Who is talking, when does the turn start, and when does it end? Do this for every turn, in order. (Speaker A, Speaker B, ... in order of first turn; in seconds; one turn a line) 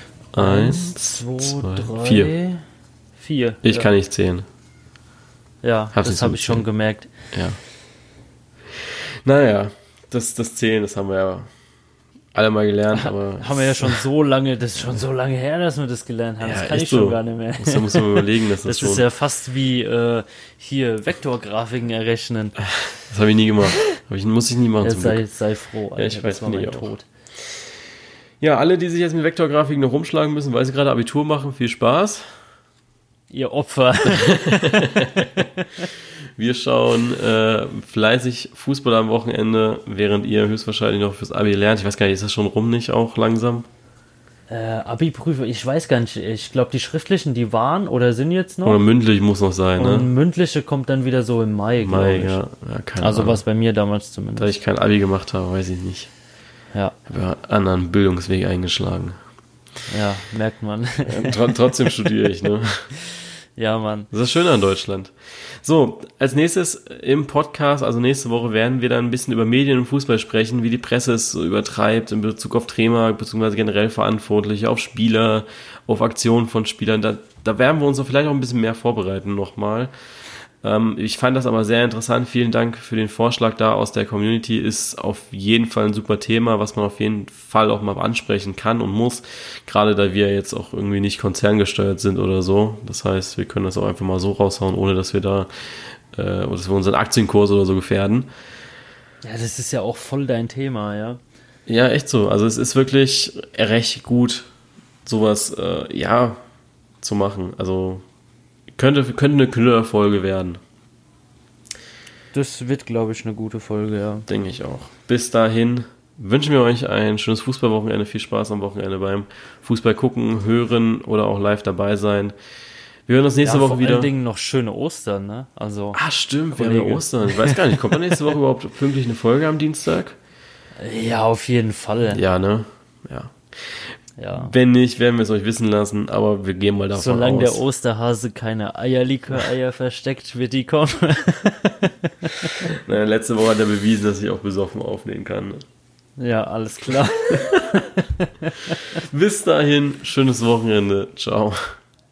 Speaker A: 0.3-2.3
Speaker B: 0.4-2.6
Speaker B: 3.2-3.9
Speaker A: 3.6-4.5
Speaker B: 5.6-7.1
Speaker A: 5.9-6.6
Speaker A: 7.3-7.6
Speaker A: 8.8-11.5
Speaker A: 12.3-14.0
Speaker B: 12.9-22.6
Speaker A: 16.4-19.1
Speaker A: 23.0-25.2
Speaker B: 24.8-27.1
Speaker A: 26.0-26.9
Speaker A: 28.4-32.2
Speaker B: 33.3-35.9
Speaker A: 34.1-35.5
Speaker A: 36.4-43.7
Speaker B: 44.5-48.8
Speaker A: 48.6-50.1
Speaker B: 49.8-52.4
Speaker A: 51.8-53.4
Speaker B: 53.0-54.5
Speaker A: 54.4-56.1
Speaker A: 57.1-59.2
Speaker B: 59.9-61.6
Speaker A: 61.0-62.9
Speaker B: 63.1-64.1
Speaker A: 64.1-79.9
Speaker A: 80.6-95.5
Speaker A: 96.1-98.3
Speaker B: 99.2-101.2
Speaker A: 101.7-104.5
Speaker A: 105.0-106.4
Speaker A: 107.0-108.0
Speaker A: 108.8-110.6
Speaker B: 112.3-114.3
Speaker A: 114.3-122.3
Speaker A: 123.1-124.1
Speaker B: 123.4-126.0
Speaker A: 125.9-130.2
Speaker B: 126.5-128.0
Speaker B: 130.8-132.2
Speaker A: 132.1-137.6
Speaker B: 134.2-134.5
Speaker B: 136.9-142.7
Speaker A: 142.7-145.6
Speaker B: 146.2-149.0
Speaker A: 147.3-147.8
Speaker A: 148.9-151.8